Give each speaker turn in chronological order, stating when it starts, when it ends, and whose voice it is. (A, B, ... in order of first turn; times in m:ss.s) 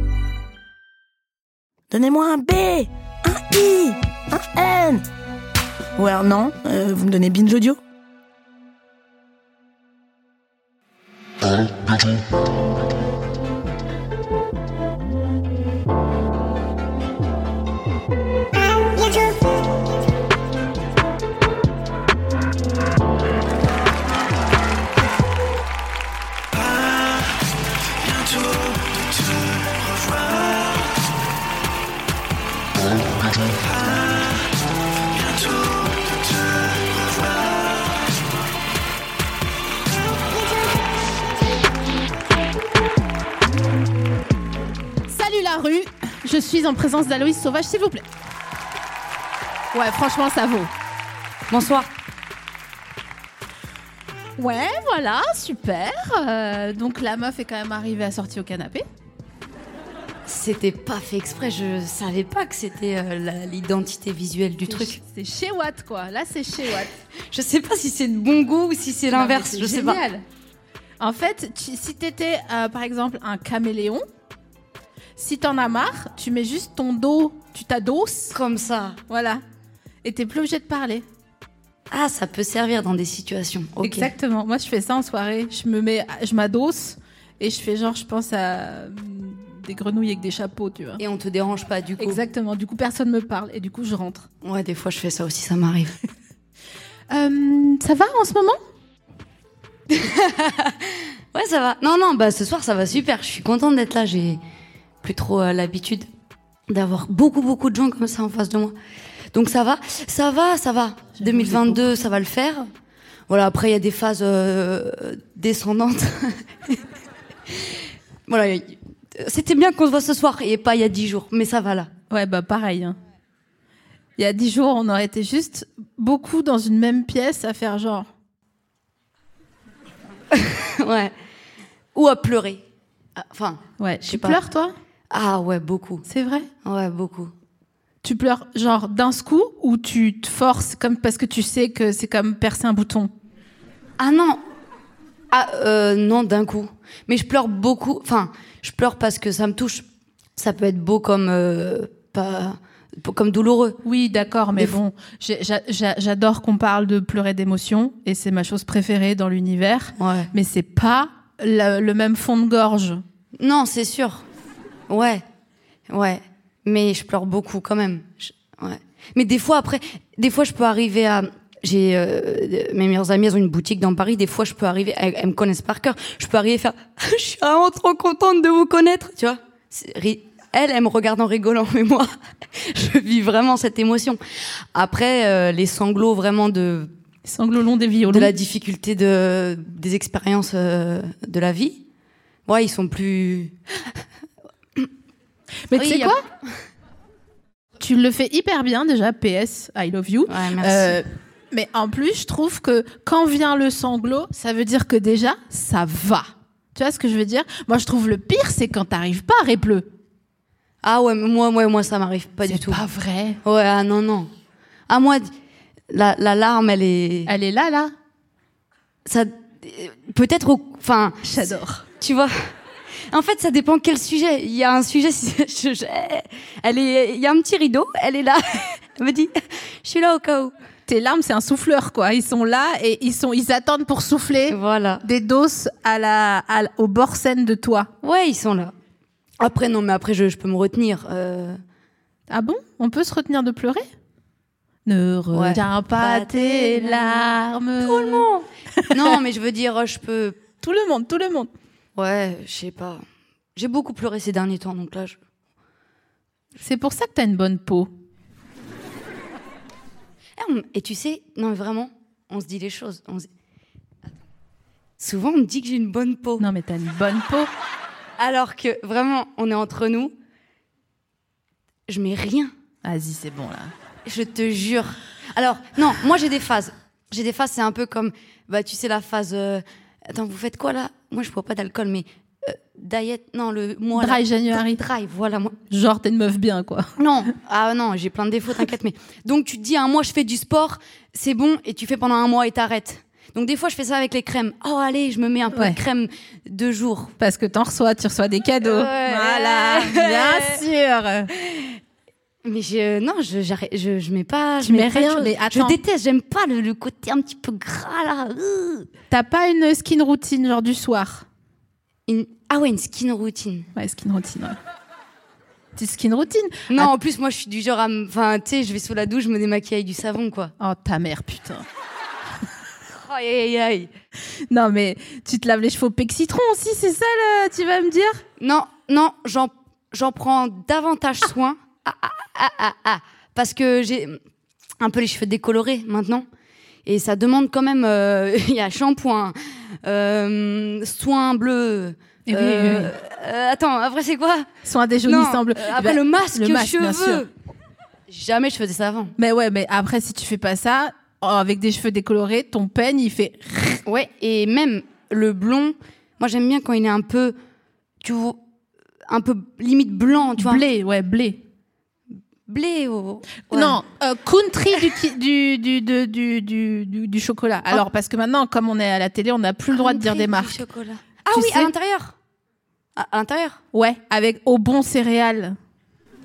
0:01.9-0:05.0 A
0:06.0-0:07.8 A
0:45.1-0:48.0 B
0:49.7-0:50.7 B
0:51.5-0:51.9 C
0:54.4-0:58.8 B
1:00.3-1:05.0 C
1:04.7-1:06.9 B
1:07.3-1:10.0 C
1:09.1-1:10.2 B
1:11.0-1:14.0 B
1:15.2-1:18.4 B
1:18.3-1:19.0 C
1:19.1-1:19.4 B
1:20.0-1:21.0 B
1:21.9-1:24.1 C
1:23.8-1:31.0 B
1:31.0-1:32.2 C
1:32.0-1:34.3 B
1:34.4-1:36.0 C
1:37.1-1:38.6 B
1:39.9-1:44.4 C
1:45.0-1:46.1 C
1:46.7-1:48.8 C
1:49.3-1:52.7 C
1:51.2-1:51.8 B
1:53.3-1:56.8 C
1:57.5-2:01.9 C
2:02.1-2:03.0 B
2:04.2-2:08.1 B
2:10.3-2:11.1 C
2:11.9-2:12.6 C
2:13.2-2:14.4 C
2:13.8-2:14.8 B
2:15.1-2:16.0 C
2:16.1-2:16.5 B
2:16.6-2:17.3 C
2:18.0-2:23.1 B
2:24.0-2:24.4 C
2:25.3-2:29.8 C
2:30.4-2:33.8 C
2:33.8-2:43.0 B
2:40.0-2:40.3 C
2:43.4-2:44.2 C
2:44.9-2:45.2 C
2:45.9-3:04.2 C
3:04.7-3:06.9 C
3:07.2-3:08.3 B
3:08.1-3:11.8 C
3:12.5-3:13.6 C
3:15.7-3:16.2 B
3:15.7-3:16.2 C
3:17.8-3:29.9 B
3:20.3-3:21.0 C
3:30.8-3:32.8 C
3:32.5-3:33.4 B
3:33.4-3:34.3 C
3:34.9-3:35.3 C
3:35.9-3:37.3 C
3:37.2-3:37.9 B
3:39.1-3:42.5 C
3:41.2-3:41.8 B
3:43.1-3:50.5 C
3:50.9-3:57.9 B
3:54.5-3:55.0 C
3:58.0-3:58.7 C
3:59.4-4:01.6 C
4:02.3-4:03.9 B
4:04.8-4:08.3 B
4:05.3-4:10.4 C
4:08.8-4:09.2 B
4:10.6-4:11.5 B
4:12.0-4:13.0 C
4:13.6-4:15.2 C
4:16.6-4:17.9 B
4:20.4-4:23.3 C
4:25.0-4:26.4 C
4:26.4-4:27.5 B
4:28.2-4:30.1 C
4:31.9-4:32.5 C
4:32.8-4:33.7 B
4:34.0-4:45.6 C
4:43.9-4:44.8 B
4:45.7-4:46.9 B
4:47.0-4:57.1 C
4:55.5-4:55.8 B
4:57.2-5:01.3 B
4:58.6-5:00.6 C
5:01.3-5:01.8 C
5:02.4-5:08.9 C
5:04.6-5:05.8 B
5:09.1-5:11.2 B
5:12.1-5:13.7 C
5:13.8-5:14.6 B
5:15.8-5:16.9 B
5:16.7-5:20.5 C
5:20.6-5:21.6 B
5:22.9-5:23.9 C
5:24.5-5:28.2 B
5:28.4-5:34.2 C
5:34.8-5:36.2 C
5:36.8-5:44.5 C
5:42.3-5:42.9 B
5:44.6-5:47.2 B
5:45.0-5:47.3 C
5:48.1-5:49.1 C
5:49.2-5:53.8 B
5:53.8-5:57.4 C
5:58.0-5:58.4 C
5:59.1-6:00.6 C
6:00.4-6:01.4 B
6:02.1-6:03.8 C
6:03.5-6:10.6 B
6:09.7-6:12.1 C
6:11.3-6:11.7 B
6:13.0-6:13.6 C
6:13.7-6:15.6 B